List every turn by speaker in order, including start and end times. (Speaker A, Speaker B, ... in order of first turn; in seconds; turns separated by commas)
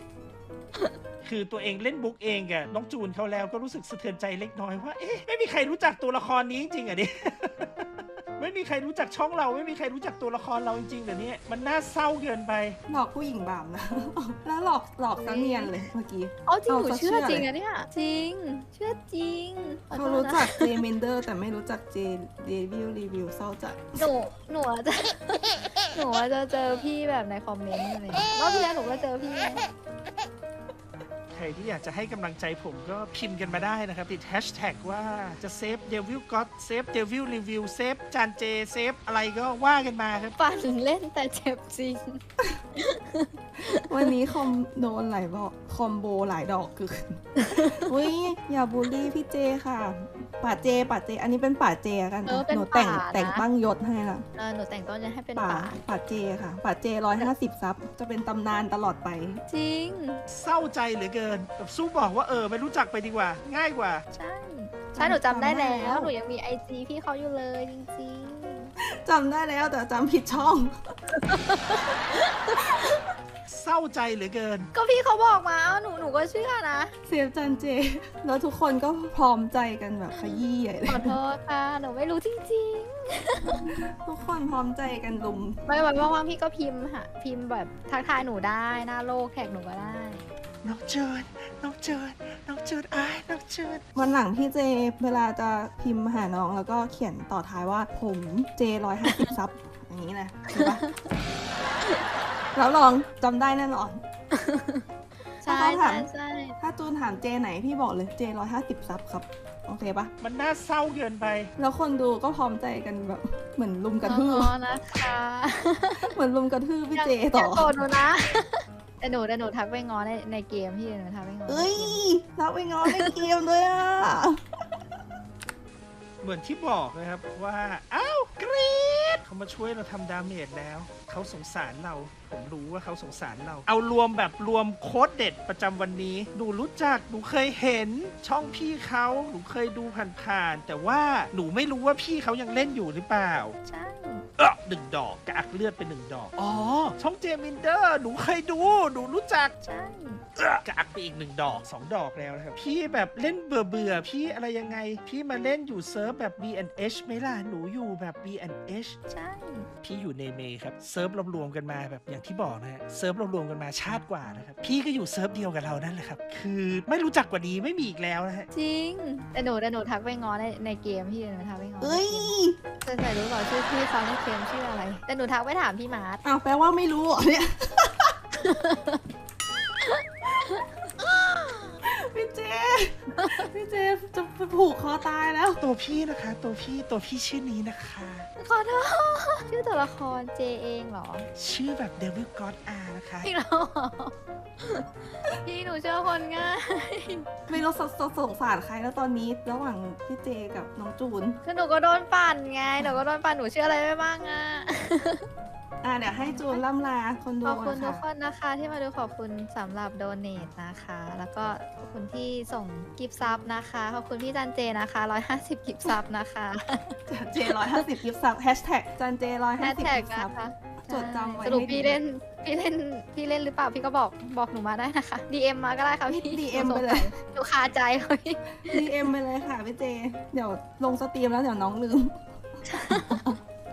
Speaker A: 1.2-7.8, Speaker A: 8.4-12.8, Speaker B: 12.9-17.5, Speaker C: 15.2-15.7, Speaker C: 16.5-20.7, Speaker B: 19.9-24.1, Speaker C: 24.0-29.7, Speaker A: 31.3-40.3, Speaker C: 40.4-42.2, Speaker C: 42.8-43.9, Speaker B: 43.7-54.2, Speaker C: 47.4-47.8, Speaker C: 52.2-53.4, Speaker C: 54.4-55.8, Speaker B: 55.4-59.4, Speaker C: 59.5-60.2, Speaker A: 60.3-64.0, Speaker C: 64.1-68.7, Speaker B: 64.9-66.1, Speaker B: 69.0-70.7, Speaker C: 71.1-73.0, Speaker A: 73.5-74.7, Speaker C: 74.7-76.9, Speaker B: 77.0-81.2, Speaker C: 80.1-83.7, Speaker B: 83.7-85.6, Speaker C: 85.7-90.2, Speaker A: 90.6-93.8, Speaker B: 93.9-100.8, Speaker C: 99.1-99.3, Speaker B: 102.5-104.0, Speaker C: 104.3-104.8, Speaker B: 105.4-106.1, Speaker C: 105.4-106.6, Speaker B: 106.6-110.1, Speaker A: 110.2-111.5, Speaker B: 111.6-114.5, Speaker C: 114.0-116.1, Speaker B: 116.1-117.8, Speaker C: 116.9-122.0, Speaker B: 121.5-124.4, Speaker A: 126.2-143.6, Speaker C: 143.6-144.2, Speaker A: 144.4-149.5, Speaker C: 149.6-150.2, Speaker A: 150.4-159.0, Speaker C: 159.1-159.7, Speaker A: 159.8-168.5, Speaker C: 168.5-176.2, Speaker B: 171.8-172.6, Speaker B: 176.2-178.1, Speaker C: 178.4-179.0, Speaker C: 179.8-180.7, Speaker B: 181.8-185.6, Speaker A: 185.6-188.3, Speaker C: 188.4-191.3, Speaker A: 191.3-193.3, Speaker C: 193.2-194.8, Speaker C: 195.4-197.6, Speaker B: 197.5-201.4, Speaker C: 201.4-205.2, Speaker B: 205.8-208.0, Speaker C: 206.2-206.6, Speaker C: 207.4-216.9, Speaker B: 217.1-220.3, Speaker C: 219.6-228.9, Speaker B: 220.8-222.0, Speaker B: 226.1-227.1, Speaker B: 228.6-232.2, Speaker C: 232.7-233.3, Speaker B: 232.9-233.3